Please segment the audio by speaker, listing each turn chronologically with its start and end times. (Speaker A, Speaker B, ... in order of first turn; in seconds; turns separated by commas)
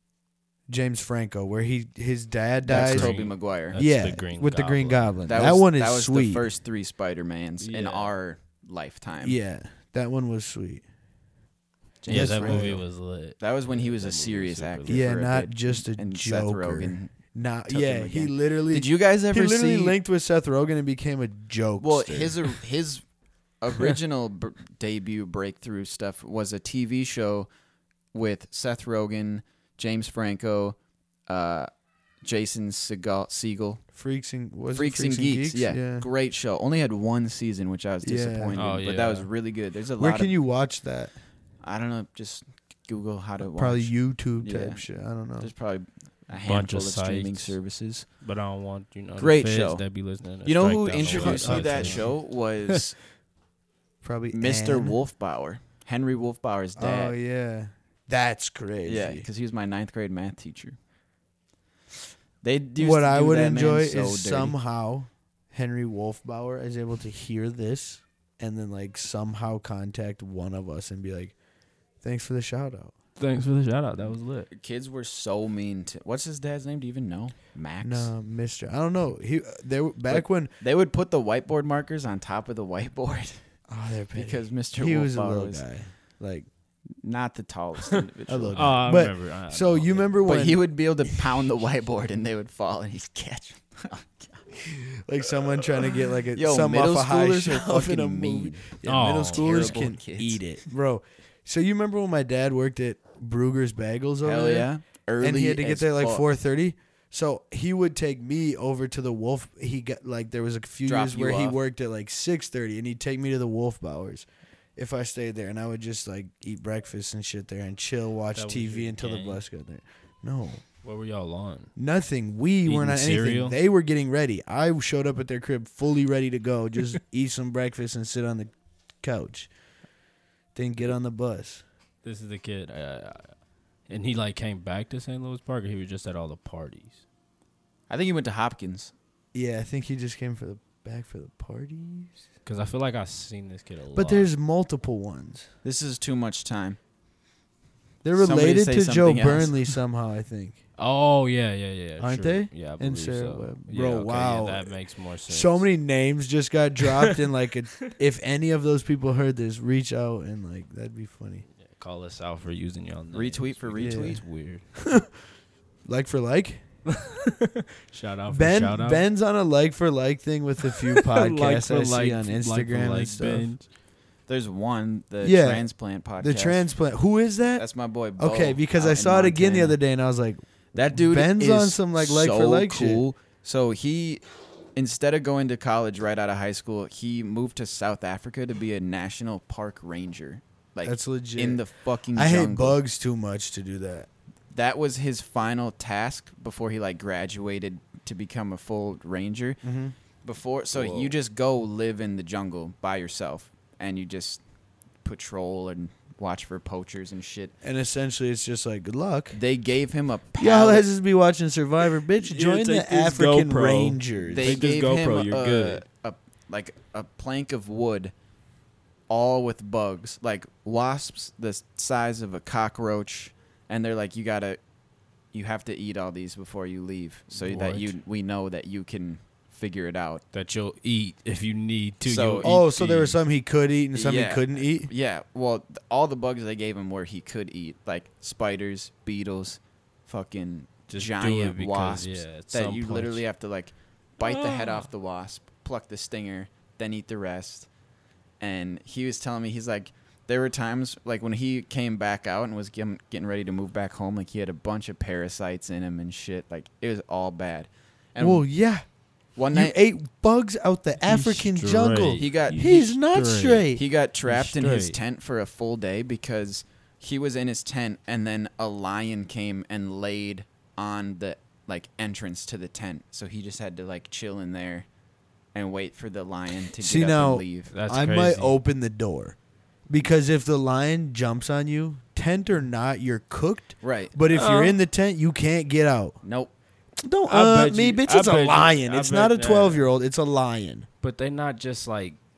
Speaker A: 0.7-3.1, Speaker B: 2.7-5.1, Speaker C: 2.7-3.8, Speaker A: 3.7-6.5, Speaker C: 5.3-9.4, Speaker B: 7.6-8.1, Speaker A: 9.2-10.8, Speaker C: 12.0-17.1, Speaker B: 12.1-15.1, Speaker A: 12.1-12.8, Speaker A: 14.9-22.4, Speaker C: 17.7-19.9, Speaker C: 21.8-23.0, Speaker C: 23.6-27.5, Speaker C: 28.1-30.8, Speaker C: 31.3-31.7, Speaker C: 32.2-33.8, Speaker A: 33.9-36.1, Speaker C: 34.7-40.4, Speaker A: 38.0-38.6, Speaker B: 38.5-39.3, Speaker A: 40.0-41.1, Speaker C: 41.6-48.1, Speaker A: 43.5-45.5, Speaker B: 46.4-47.6, Speaker B: 48.2-52.7, Speaker C: 49.2-53.0, Speaker A: 51.0-52.2, Speaker A: 54.0-55.0, Speaker C: 54.3-57.1, Speaker A: 56.8-59.2, Speaker C: 58.8-60.8, Speaker C: 62.4-64.6, Speaker A: 62.8-71.3, Speaker A: 72.0-72.9, Speaker B: 73.2-74.5, Speaker C: 74.5-78.1, Speaker A: 77.8-80.5, Speaker C: 80.1-83.4, Speaker A: 83.7-86.5, Speaker C: 84.1-85.6, Speaker C: 87.0-88.8, Speaker A: 88.3-91.2, Speaker B: 88.5-90.2, Speaker C: 90.2-94.5, Speaker A: 94.9-120.6, Speaker C: 96.3-98.7, Speaker B: 98.8-99.8, Speaker C: 99.4-100.6, Speaker C: 104.2-106.2, Speaker C: 110.9-111.6, Speaker B: 118.3-119.4, Speaker B: 120.8-121.7, Speaker A: 121.8-129.5, Speaker B: 122.6-123.6, Speaker A: 130.6-131.6, Speaker B: 132.0-133.3, Speaker B: 133.9-137.0, Speaker C: 137.9-138.9, Speaker A: 139.3-142.2, Speaker B: 142.4-144.3, Speaker A: 143.9-145.5, Speaker C: 145.6-146.8, Speaker A: 148.0-150.6, Speaker C: 148.2-149.7, Speaker B: 150.8-155.7, Speaker A: 152.0-161.4, Speaker B: 161.6-164.6, Speaker C: 163.1-164.2, Speaker A: 163.8-164.2, Speaker A: 164.8-165.1, Speaker A: 165.9-166.6, Speaker B: 166.9-169.1, Speaker A: 168.3-173.5, Speaker B: 171.0-173.6, Speaker C: 174.3-176.7, Speaker A: 175.2-177.7, Speaker C: 177.6-179.8, Speaker A: 178.2-183.0, Speaker C: 180.7-184.2, Speaker C: 184.7-192.8, Speaker A: 190.8-191.6, Speaker A: 192.1-194.1, Speaker C: 194.5-199.6, Speaker A: 199.6-199.9, Speaker C: 200.2-204.4, Speaker A: 200.7-201.1, Speaker C: 205.0-207.5, Speaker A: 207.6-209.4, Speaker C: 209.3-210.8, Speaker A: 210.4-214.6, Speaker B: 212.2-215.8, Speaker C: 214.3-218.1, Speaker C: 219.1-224.6, Speaker C: 225.3-230.2, Speaker B: 227.3-227.9, Speaker B: 230.3-233.2, Speaker C: 232.0-232.5, Speaker A: 232.4-234.9, Speaker C: 233.9-247.7, Speaker B: 240.9-243.2, Speaker B: 244.2-244.9, Speaker C: 248.4-258.5, Speaker A: 258.2-258.8, Speaker C: 259.4-259.8, Speaker A: 259.5-263.8, Speaker B: 261.1-263.7, Speaker C: 262.2-262.9, Speaker C: 263.7-274.9, Speaker B: 264.3-265.0, Speaker C: 275.5-277.7, Speaker A: 276.8-279.4, Speaker B: 277.7-278.6, Speaker A: 279.9-286.2, Speaker C: 283.8-284.1, Speaker B: 284.3-284.8, Speaker C: 286.2-286.5, Speaker A: 287.0-290.9, Speaker B: 287.3-289.8, Speaker B: 291.0-292.2